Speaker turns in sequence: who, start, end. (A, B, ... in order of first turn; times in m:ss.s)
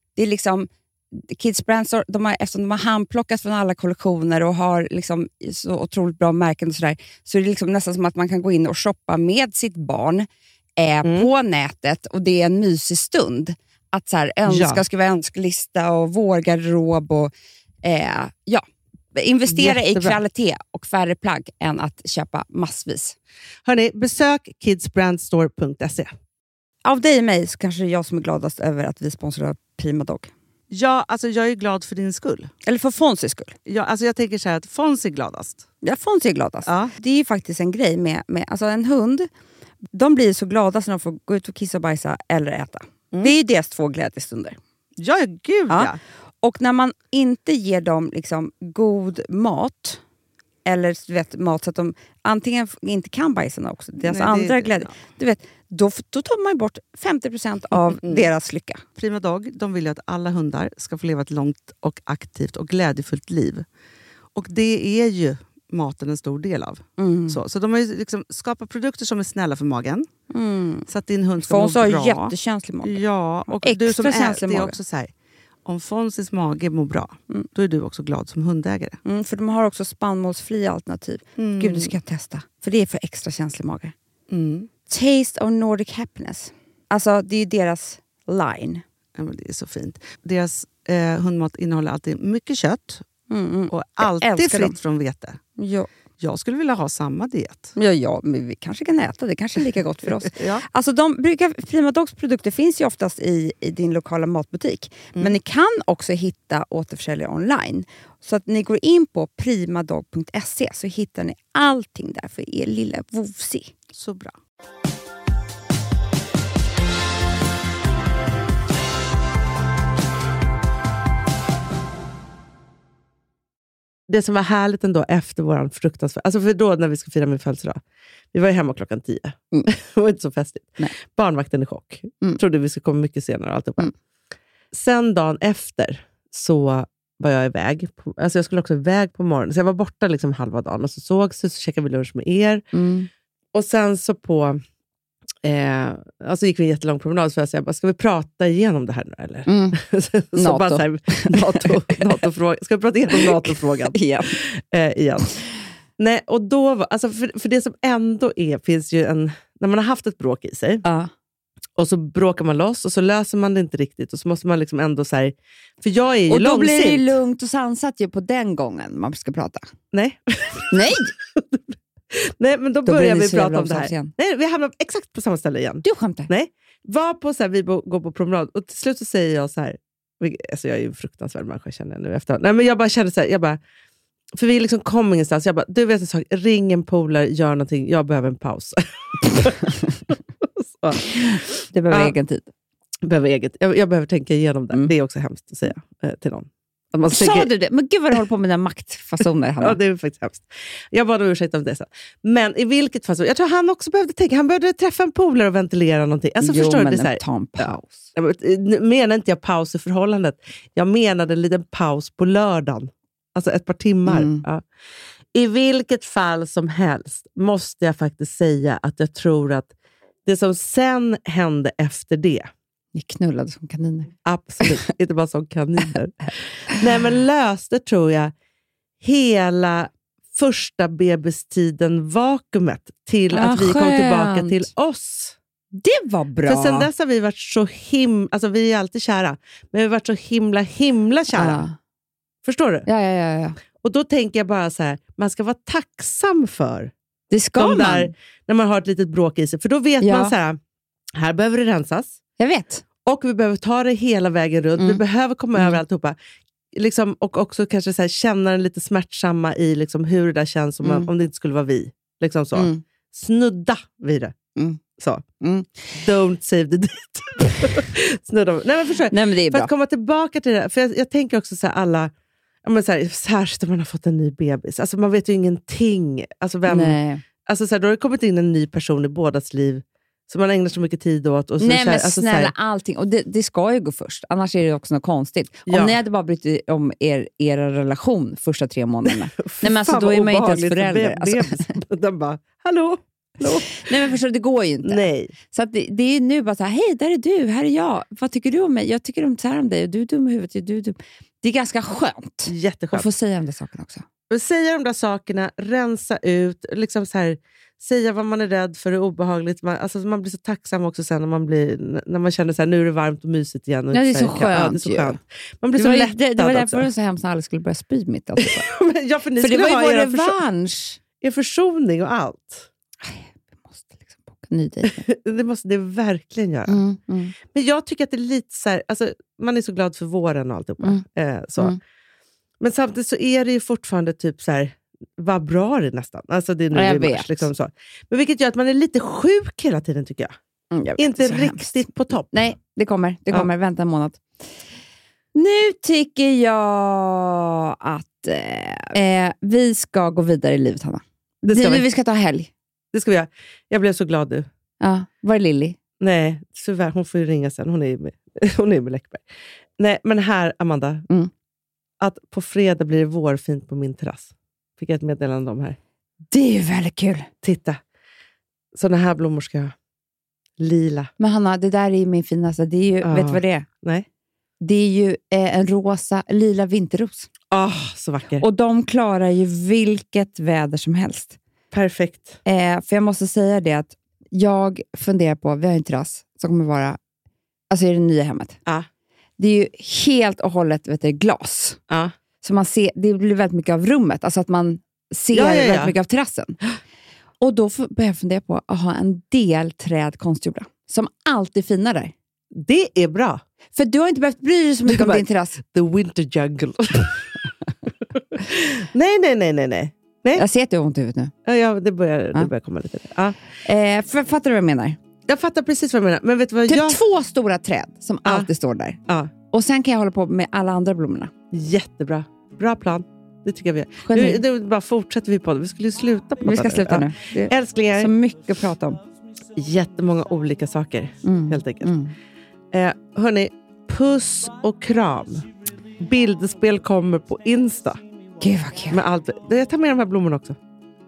0:00.2-0:17.3 A
0:14.5-0:14.8 B
0:17.8-0:23.2 A
0:23.7-0:26.1 B
0:26.8-0:30.3 A
0:30.7-0:32.5 C
0:32.6-0:33.6 A
0:33.7-0:35.7 C
0:35.8-0:39.3 A
0:36.6-0:36.9 C
0:39.9-0:44.6 A
0:45.0-0:46.0 C
0:46.4-0:50.0 A
0:50.7-0:58.8 A
0:54.0-0:55.0 C
0:58.0-0:58.3 C
0:59.0-1:03.7 C
1:04.4-1:10.1 C
1:07.0-1:07.4 A
1:10.3-1:10.9 A
1:10.9-1:15.1 C
1:11.4-1:13.0 A
1:13.5-1:14.8 A
1:15.6-1:19.0 C
1:19.0-1:23.9 A
1:21.4-1:22.0 C
1:24.3-1:24.7 C
1:24.9-1:28.8 A
1:29.2-1:33.0 C
1:33.3-1:34.8 A
1:33.7-1:35.4 C
1:35.6-1:35.9 A
1:36.2-1:37.7 C
1:37.8-1:53.7 A
1:40.2-1:40.6 C
1:53.9-1:54.3 C
2:04.1-2:07.8 B
2:08.3-2:13.9 B
2:14.7-2:22.6 B
2:22.7-2:23.1 A
2:23.5-2:24.6 B
2:25.4-2:35.4 B
2:29.5-2:29.8 A
2:30.4-2:32.0 A
2:33.1-2:34.4 A
2:36.0-2:40.8 B
2:40.8-2:41.1 A
2:41.8-2:47.2 B
2:46.3-2:49.7 A
2:49.9-3:03.6 B
2:50.7-2:51.1 A
2:52.8-2:54.1 A
2:55.8-2:56.3 A
3:04.3-3:12.2 B
3:11.2-3:12.5 A
3:13.0-3:17.5 B
3:17.1-3:19.8 A
3:19.6-3:34.6 B
3:26.4-3:28.1 A
3:34.1-3:34.5 A
3:35.3-3:39.7 B
3:40.3-3:42.5 B
3:43.0-3:44.8 A
3:44.2-3:48.3 B
3:49.0-3:55.4 B
3:53.3-3:54.7 A
3:55.7-3:56.9 A
3:56.4-4:01.6 B
4:01.3-4:01.8 A
4:02.4-4:02.9 B
4:02.9-4:03.6 A
4:03.8-4:06.9 B
4:07.3-4:08.1 A
4:07.6-4:10.6 B
4:10.0-4:10.3 A
4:11.1-4:12.2 B
4:12.4-4:12.8 A
4:13.0-4:16.2 B
4:16.7-4:24.4 B
4:20.8-4:21.1 A
4:22.6-4:22.8 A
4:24.6-4:24.8 A
4:25.0-4:25.2 B
4:25.4-4:26.0 A
4:26.0-4:32.1 B
4:29.1-4:29.7 A
4:32.6-4:42.5 B
4:36.7-4:37.2 A
4:41.6-4:51.8 A
4:45.7-4:46.0 B
4:49.1-4:54.1 B
4:53.4-5:04.0 A
4:54.8-4:55.3 B
5:02.5-5:03.1 B
5:04.3-5:16.9 B
5:13.9-5:15.2 A
5:15.7-5:18.7 A
5:18.4-5:20.4 B
5:19.4-5:21.0 A
5:21.2-5:22.7 B
5:23.0-5:25.0 A
5:24.9-5:26.8 B
5:26.7-5:27.4 A
5:27.5-5:31.8 B
5:32.6-5:40.4 B
5:36.7-5:37.5 A
5:40.7-5:41.8 A
5:41.0-5:42.5 B
5:42.3-5:44.2 A
5:45.4-5:52.5 A
5:51.4-5:51.9 B
5:52.9-5:54.5 B
5:54.8-5:55.8 A
5:56.0-5:59.2 B
5:59.8-6:01.1 B
6:02.0-6:05.8 B
6:06.3-6:07.3 A
6:07.4-6:07.8 B
6:08.7-6:09.7 B
6:10.6-6:11.1 B
6:11.2-6:13.7 A
6:13.0-6:14.1 B
6:14.6-6:17.3 A
6:17.5-6:18.4 B
6:18.4-6:21.4 A
6:21.7-6:22.4 B
6:22.4-6:27.0 A
6:27.7-6:28.6 A
6:29.4-6:31.8 A
6:31.9-6:32.1 B
6:32.4-6:36.6 A
6:35.3-6:36.0 B
6:37.4-6:42.1 A
6:42.5-6:43.4 B
6:43.8-6:45.6 A
6:44.9-6:47.5 B
6:48.1-6:50.4 B
6:50.4-6:51.3 A
6:51.4-6:53.4 B
6:53.6-6:55.0 A
6:55.3-6:57.0 B
6:56.7-6:59.0 A
6:59.5-7:01.3 A
7:01.5-7:08.1 B
7:04.0-7:04.4 A
7:06.4-7:09.0 A
7:09.6-7:11.9 B
7:11.2-7:12.2 A
7:12.7-7:15.5 B
7:16.0-7:18.0 B
7:18.4-7:19.0 A
7:18.9-7:20.6 B